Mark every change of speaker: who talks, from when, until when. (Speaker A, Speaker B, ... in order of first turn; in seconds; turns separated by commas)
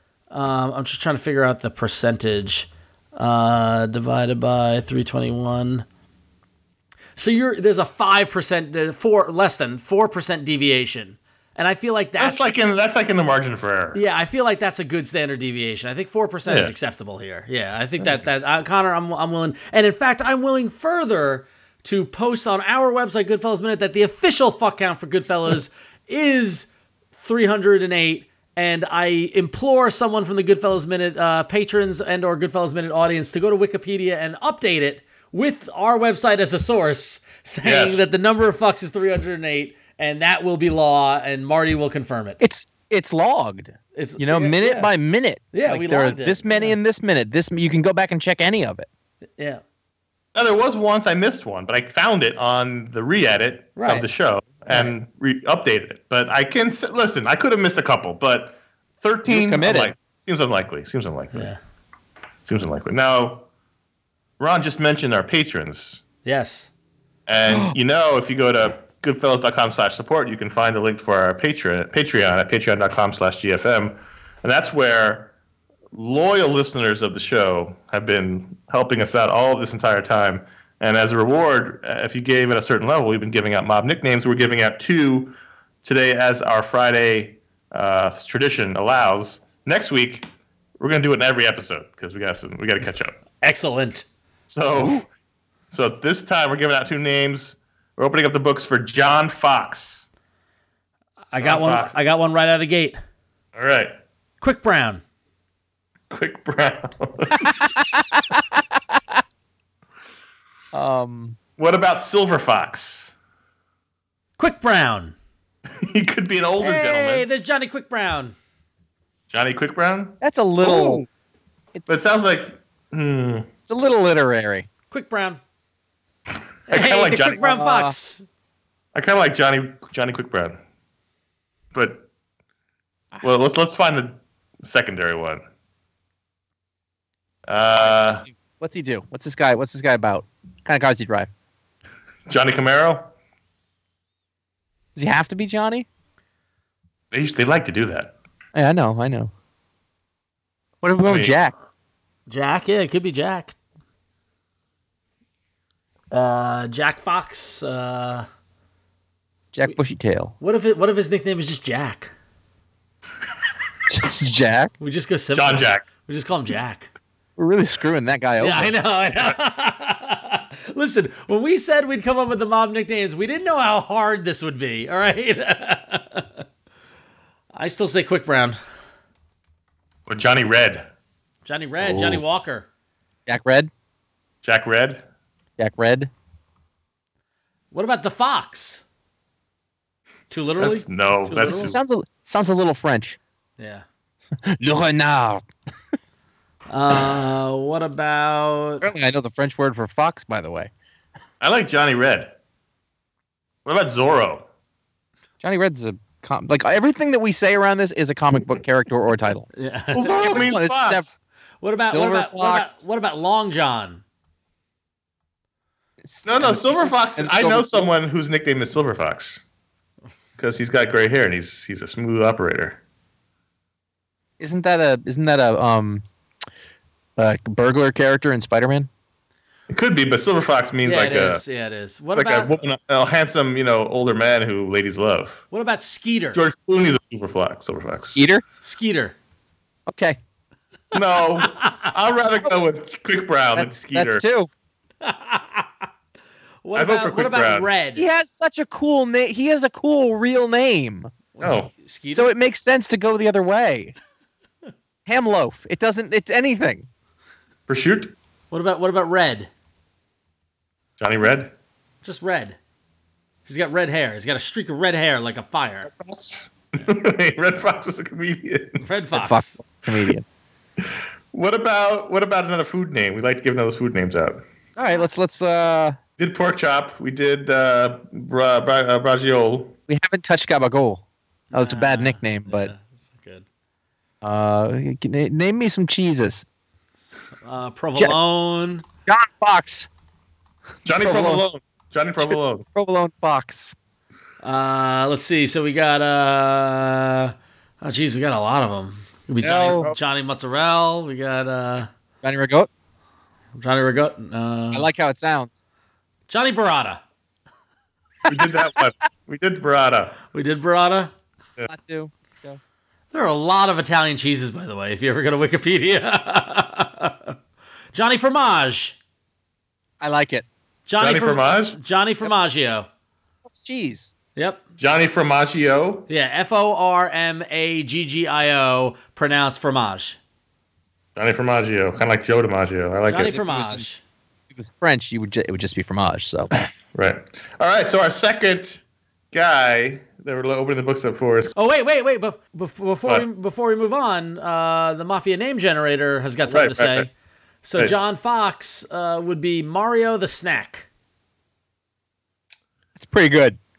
Speaker A: 0.3-5.8, Speaker A: 7.2-12.5, Speaker B: 12.2-14.0, Speaker A: 13.9-42.4, Speaker B: 16.5-16.7, Speaker B: 37.6-38.0, Speaker C: 42.4-48.9, Speaker A: 44.0-44.9, Speaker A: 45.5-46.8, Speaker B: 50.4-61.5, Speaker A: 53.8-54.1, Speaker A: 54.7-54.9, Speaker C: 59.3-59.9, Speaker B: 62.5-63.5, Speaker B: 64.4-66.0, Speaker A: 66.2-66.7, Speaker B: 67.3-75.3, Speaker C: 67.5-67.8, Speaker B: 75.9-90.3, Speaker B: 90.8-93.2, Speaker A: 93.4-94.0, Speaker B: 94.5-95.0, Speaker C: 94.7-95.0, Speaker B: 95.7-100.1, Speaker A: 101.3-103.0, Speaker B: 101.4-102.0, Speaker B: 103.5-103.9, Speaker A: 104.4-105.0, Speaker B: 106.1-107.5, Speaker C: 107.4-108.6, Speaker C: 110.7-111.4, Speaker B: 111.6-113.1, Speaker A: 114.4-115.2, Speaker B: 115.7-117.3, Speaker A: 116.6-118.3, Speaker B: 119.3-121.1, Speaker C: 120.2-121.0, Speaker B: 121.9-123.5, Speaker C: 123.7-124.7, Speaker A: 124.9-125.4, Speaker B: 126.7-127.4, Speaker A: 126.7-128.2, Speaker C: 127.4-128.0, Speaker B: 128.9-130.6, Speaker B: 131.7-132.1, Speaker B: 133.2-135.4, Speaker B: 137.5-138.2, Speaker C: 138.2-141.3, Speaker B: 142.3-143.1, Speaker C: 145.0-145.9, Speaker B: 147.1-148.1, Speaker C: 148.5-149.3, Speaker C: 150.8-151.5, Speaker B: 151.0-151.3, Speaker A: 152.3-153.6, Speaker A: 156.1-158.3, Speaker C: 159.5-160.3, Speaker A: 160.4-162.1, Speaker C: 163.9-164.7, Speaker A: 164.8-166.9, Speaker B: 165.3-165.9, Speaker C: 167.4-168.7, Speaker A: 168.4-176.4, Speaker A: 177.6-178.6, Speaker B: 180.1-180.9, Speaker A: 181.4-182.7, Speaker B: 181.8-182.2, Speaker C: 183.3-183.7, Speaker B: 184.4-185.0, Speaker C: 185.6-186.1, Speaker A: 187.7-188.8, Speaker A: 190.3-191.8, Speaker B: 190.6-191.8, Speaker C: 191.3-193.2, Speaker A: 193.6-193.8, Speaker C: 194.4-195.5, Speaker A: 196.7-198.8, Speaker C: 198.8-200.7, Speaker B: 201.4-202.3, Speaker B: 203.7-204.5, Speaker C: 205.4-209.5, Speaker A: 209.6-210.2, Speaker B: 209.9-211.1, Speaker C: 210.2-211.1, Speaker A: 211.6-214.0, Speaker C: 211.9-212.8, Speaker C: 216.0-217.9, Speaker B: 216.2-219.4, Speaker B: 220.4-222.8, Speaker C: 224.4-226.0, Speaker C: 227.2-228.9, Speaker B: 229.7-231.4, Speaker A: 230.8-232.6, Speaker B: 232.1-235.4, Speaker A: 235.5-236.4, Speaker B: 236.3-238.2, Speaker C: 238.2-238.4, Speaker A: 238.6-239.2, Speaker C: 239.9-240.2, Speaker B: 240.9-244.2, Speaker A: 241.4-241.9, Speaker C: 243.6-244.5, Speaker A: 245.0-245.9, Speaker A: 246.6-248.1, Speaker B: 246.8-247.7, Speaker C: 248.0-251.1, Speaker A: 251.3-252.3, Speaker B: 251.4-251.7, Speaker C: 252.1-253.9, Speaker C: 255.1-256.9, Speaker B: 257.7-258.2, Speaker A: 258.5-259.5, Speaker B: 261.0-261.5, Speaker A: 262.0-262.6, Speaker A: 263.5-265.9, Speaker B: 265.9-268.8, Speaker A: 268.8-269.6, Speaker C: 269.1-270.3, Speaker B: 270.9-274.4, Speaker C: 274.8-276.0, Speaker B: 276.2-279.8, Speaker C: 279.9-282.7, Speaker A: 281.5-283.4, Speaker C: 284.2-286.4, Speaker A: 287.4-288.8, Speaker C: 289.1-289.9, Speaker B: 290.9-292.7, Speaker C: 291.0-291.4, Speaker C: 292.2-293.8, Speaker A: 294.4-301.9, Speaker C: 299.4-299.9, Speaker C: 302.2-302.7, Speaker A: 303.6-304.9, Speaker C: 304.7-305.5, Speaker A: 306.3-307.0, Speaker B: 308.3-310.2, Speaker A: 310.3-311.1, Speaker C: 311.7-312.6, Speaker A: 313.1-317.4, Speaker A: 317.9-319.0, Speaker C: 320.0-320.5, Speaker A: 320.9-322.9, Speaker B: 321.0-321.8, Speaker C: 323.5-324.1, Speaker A: 324.4-324.6, Speaker B: 324.8-326.1, Speaker A: 326.1-330.2, Speaker B: 331.2-333.4, Speaker A: 333.1-334.0, Speaker C: 333.3-333.9, Speaker C: 334.5-336.5, Speaker B: 336.9-338.8, Speaker B: 339.3-341.5, Speaker A: 341.6-347.1, Speaker B: 346.5-347.1, Speaker A: 347.6-350.9, Speaker C: 353.0-353.6